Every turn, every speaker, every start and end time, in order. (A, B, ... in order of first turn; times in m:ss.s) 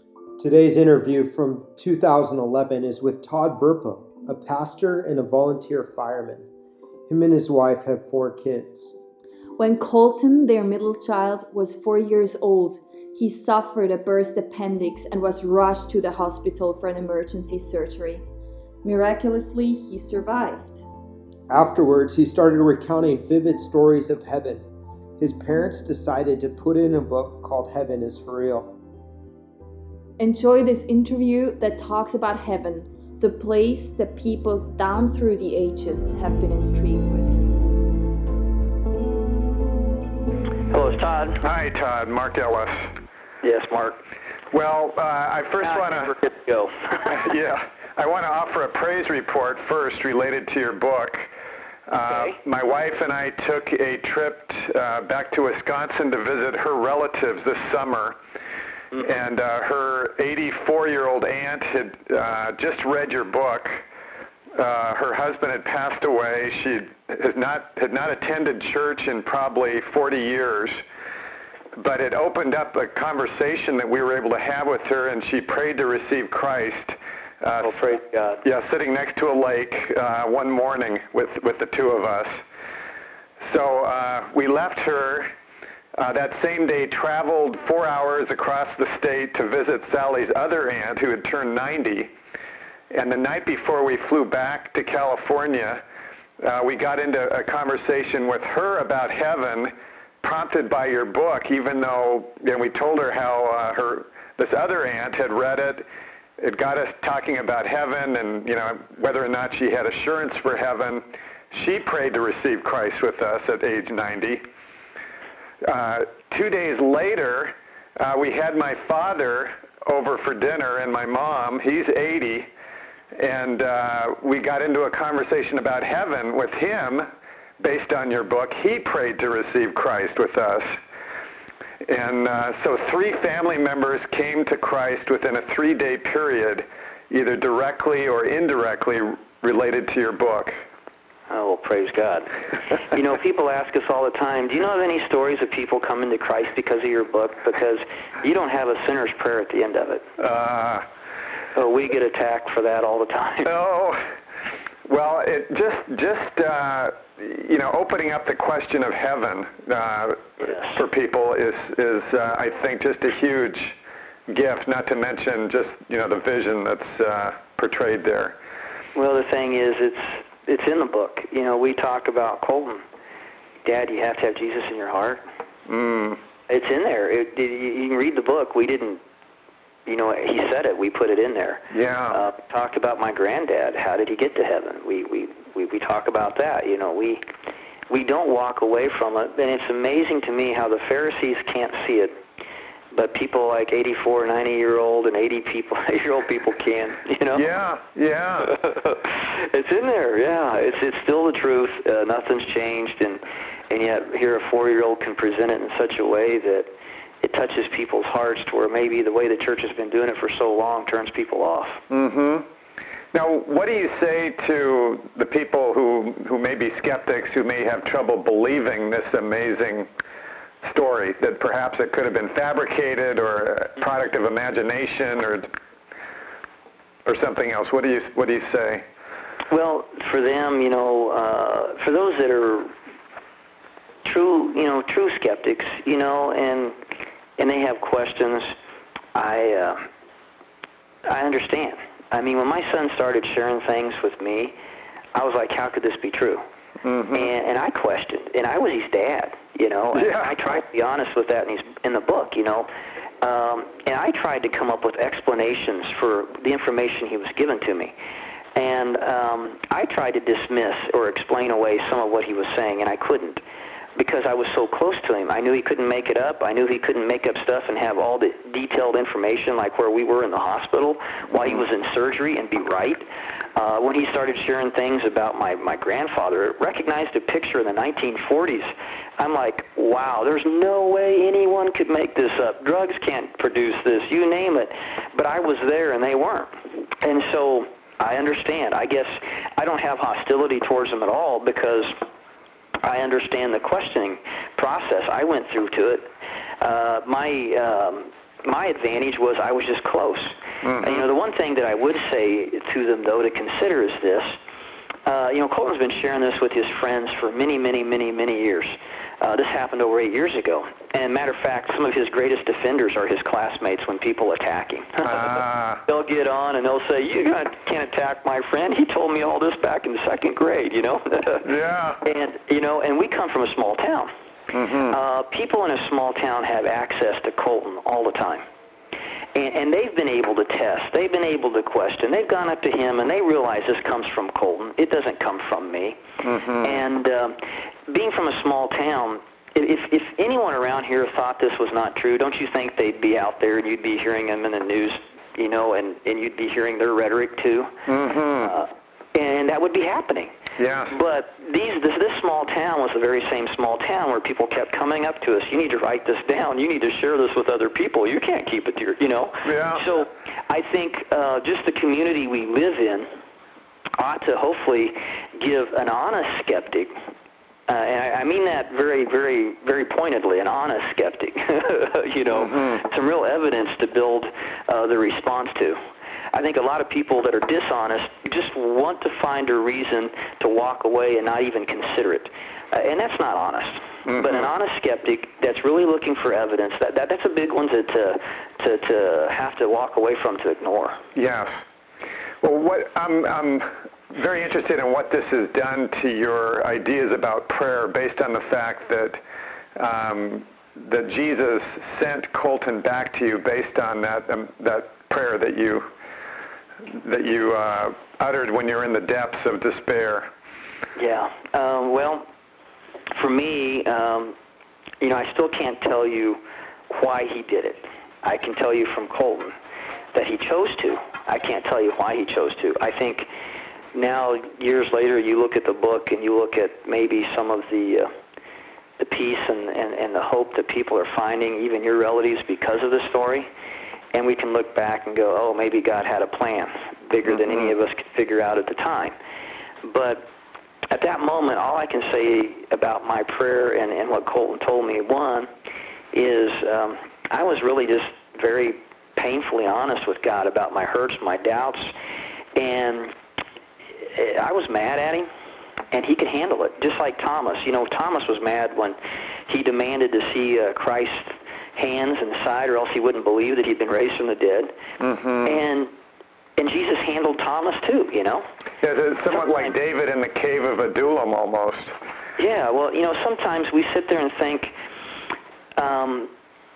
0:00.4-0:06.4 A
0:07.1-0:08.9 A
0:09.6-0:18.2 B
0:18.8-0:20.8 B
0:21.5-0:24.6 A
0:25.2-0:28.7 A
0:30.2-0:37.4 B
0:40.7-0:41.4 C
0:41.4-0:42.9 D
0:43.4-0:44.0 C
0:44.5-0:46.1 D
0:45.6-0:47.2 C
0:47.0-0:51.3 D
0:51.9-0:58.2 D
0:52.0-0:52.4 C
0:59.0-1:03.8 D
1:04.5-1:10.8 D
1:11.7-1:17.9 D
1:17.6-1:18.4 C
1:18.4-1:22.4 D
1:23.4-1:25.3 D
1:26.0-1:32.1 D
1:32.9-1:35.8 D
1:36.4-1:45.8 D
1:46.4-1:54.4 D
1:55.6-2:02.5 D
2:03.1-2:07.1 D
2:07.6-2:10.8 D
2:11.8-2:20.5 D
2:21.3-2:30.0 C
2:30.2-2:30.8 D
2:31.5-2:33.5 C
2:33.4-2:34.0 D
2:34.8-2:43.8 D
2:44.3-2:48.4 D
2:48.9-2:52.8 C
2:53.6-2:55.2 C
2:55.7-2:56.2 D
2:56.5-2:59.0 C
2:59.8-3:07.2 C
3:01.7-3:02.2 D
3:07.9-3:12.1 C
3:12.9-3:17.4 C
3:17.3-3:18.6 D
3:18.5-3:31.8 C
3:31.9-3:32.5 D
3:33.1-3:39.9 D
3:40.6-3:45.5 D
3:47.0-3:48.8 D
3:49.5-3:52.7 C
3:54.0-3:56.8 C
3:57.4-3:58.5 C
3:59.1-3:59.9 C
4:01.0-4:04.5 C
4:05.1-4:06.4 C
4:06.8-4:07.3 D
4:07.1-4:12.7 C
4:09.9-4:10.4 D
4:13.2-4:17.9 C
4:18.6-4:23.4 C
4:24.0-4:33.0 C
4:33.6-4:52.0 C
4:52.8-4:56.1 C
4:56.6-5:04.4 C
5:00.6-5:01.0 D
5:05.0-5:21.5 C
5:15.0-5:15.8 D
5:21.4-5:22.0 D
5:22.0-5:24.1 C
5:24.5-5:25.0 D
5:24.9-5:28.4 C
5:29.3-5:36.0 C
5:36.2-5:36.8 D
5:36.6-5:50.3 C
5:47.9-5:48.5 D
5:50.6-5:50.9 D
5:50.9-6:03.1 C
5:59.4-5:59.8 D
6:04.0-6:06.9 C
6:07.7-6:15.8 C
6:12.3-6:12.8 D
6:16.3-6:31.0 C
6:24.0-6:24.5 D
6:31.1-6:31.6 D
6:32.4-6:39.2 D
6:39.7-6:45.8 D
6:46.9-6:50.3 D
6:51.0-6:52.2 C
6:53.1-6:54.3 C
6:55.0-6:59.5 C
7:00.1-7:03.3 C
7:03.9-7:08.1 C
7:09.0-7:13.5 C
7:14.1-7:19.1 C
7:19.8-7:20.3 C
7:20.9-7:25.5 C
7:26.1-7:31.9 C
7:32.6-7:33.1 C
7:34.0-7:35.3 C
7:35.9-7:39.0 C
7:39.5-7:44.7 C
7:45.0-7:45.6 D
7:45.4-7:45.9 C
7:46.6-7:48.4 C
7:48.8-7:51.9 D
7:52.4-7:54.7 C
7:55.8-7:56.3 C